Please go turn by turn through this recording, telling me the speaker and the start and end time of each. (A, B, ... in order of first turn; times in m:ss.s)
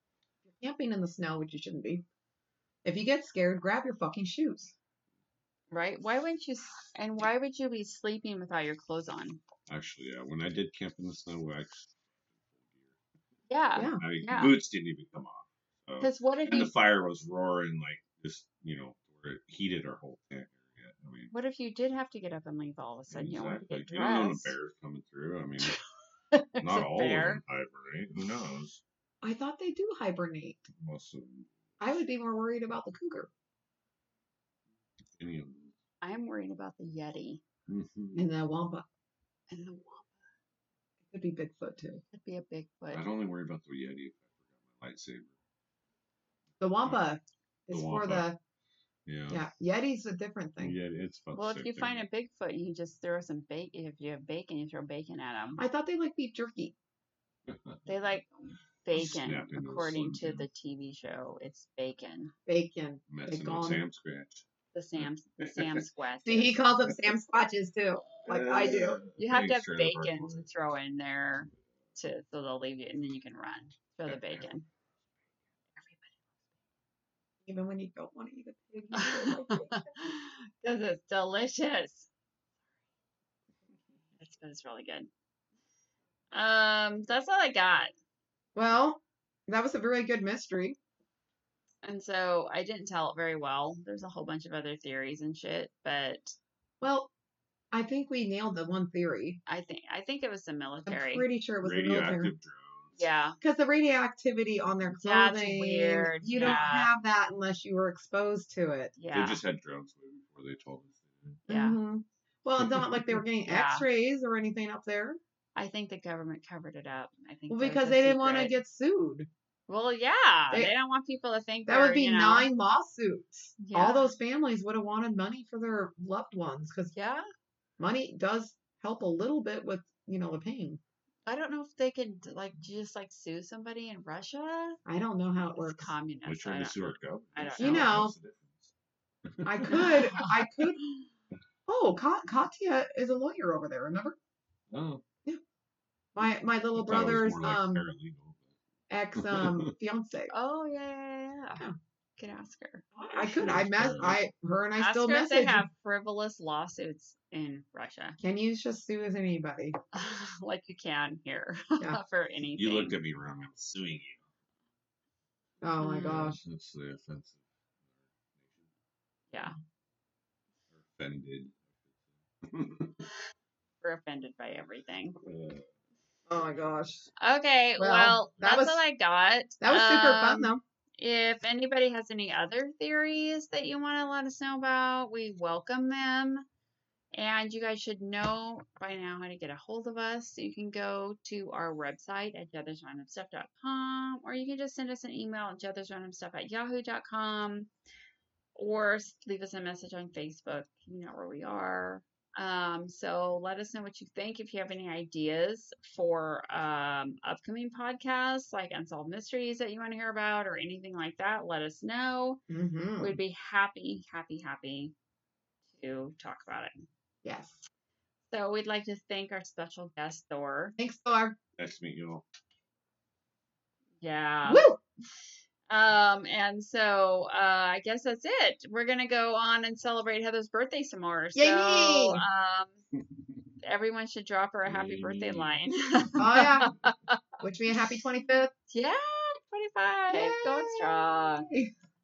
0:00.4-0:02.0 A
0:02.8-0:04.7 A
0:05.7-0:09.4 B
0:09.7-0:13.0 C
0:13.5-0:14.5 B
0:13.8-0:14.0 A
0:14.0-0:21.3 C
0:16.0-0:16.7 B
0:21.3-0:24.6 B
0:23.1-0:25.8 C
0:26.3-0:27.4 B
0:26.6-0:28.8 C
0:29.2-0:30.7 A
0:30.7-0:31.5 C
0:31.8-0:33.3 A
0:35.1-0:35.8 C
0:36.0-0:37.4 B
0:37.7-0:38.3 C
0:38.1-0:38.9 A
0:39.5-0:40.2 B
0:41.1-0:42.0 A
0:42.1-0:43.0 B
0:42.9-0:45.3 C
0:46.6-0:48.4 A
0:47.7-0:48.3 C
0:49.1-0:49.4 C
0:49.3-0:50.8 A
0:50.6-0:52.1 C
0:51.3-0:55.6 B
0:55.6-0:56.7 A
0:57.4-0:57.8 C
0:57.9-0:58.3 B
0:58.8-1:02.3 B
0:58.9-1:00.5 C
1:02.4-1:03.8 A
1:03.1-1:04.4 C
1:04.7-1:06.6 B
1:05.0-1:05.8 C
1:06.2-1:09.0 A
1:08.2-1:10.5 C
1:09.2-1:14.6 B
1:14.1-1:14.5 C
1:15.8-1:16.1 B
1:17.4-1:19.9 A
1:18.9-1:22.1 B
1:24.2-1:25.1 B
1:26.3-1:27.9 B
1:28.6-1:30.8 A
1:31.8-1:36.4 B
1:36.8-1:37.1 A
1:37.7-1:39.4 A
1:39.5-1:41.3 B
1:40.9-1:42.3 A
1:41.6-1:43.1 C
1:43.0-1:43.4 B
1:43.4-1:49.0 A
1:44.9-1:46.9 B
1:49.0-1:49.4 B
1:49.1-1:51.4 C
1:51.5-1:55.2 A
1:51.5-1:51.8 B
1:52.6-1:53.0 C
1:53.4-1:53.9 B
1:55.6-1:58.6 B
1:57.5-1:59.3 A
1:59.7-2:02.5 B
2:01.7-2:06.9 A
2:03.6-2:04.1 B
2:07.0-2:07.3 B
2:07.8-2:10.8 A
2:11.3-2:14.8 B
2:14.9-2:15.9 A
2:15.5-2:18.0 B
2:16.2-2:18.7 C
2:17.6-2:18.1 A
2:19.3-2:19.9 C
2:19.4-2:20.8 A
2:19.6-2:20.3 B
2:21.7-2:24.2 A
2:24.7-2:25.0 C
2:26.1-2:27.9 A
2:26.7-2:28.5 C
2:28.9-2:30.3 A
2:29.2-2:29.7 C
2:30.3-2:31.7 B
2:32.2-2:32.8 B
2:33.0-2:35.7 A
2:33.2-2:34.3 C
2:34.8-2:38.2 B
2:38.2-2:39.8 A
2:39.9-2:43.0 B
2:42.6-2:44.2 C
2:45.6-2:46.4 A
2:45.8-2:46.2 B
2:46.0-2:47.4 C
2:48.4-2:48.7 C
2:50.7-2:51.6 C
2:52.4-2:53.0 C
2:53.8-2:55.2 B
2:55.2-2:55.7 C
2:56.3-2:57.1 A
2:57.2-3:06.4 B
2:57.8-2:58.8 A
2:59.6-3:00.6 A
3:07.1-3:17.7 B
3:18.6-3:32.4 B
3:32.5-3:33.2 A
3:33.0-3:34.9 B
3:35.7-3:36.8 B
3:37.2-3:37.7 A
3:38.3-3:40.8 B
3:40.8-3:41.4 A
3:41.6-3:42.2 C
3:44.0-3:44.7 B
3:44.4-3:44.8 A
3:45.7-3:52.8 B
3:51.4-3:52.2 A
3:53.6-3:57.2 B
3:54.6-3:55.6 C
3:56.2-3:56.7 A
3:57.4-3:58.5 A
3:58.7-4:01.5 B
4:00.1-4:01.7 A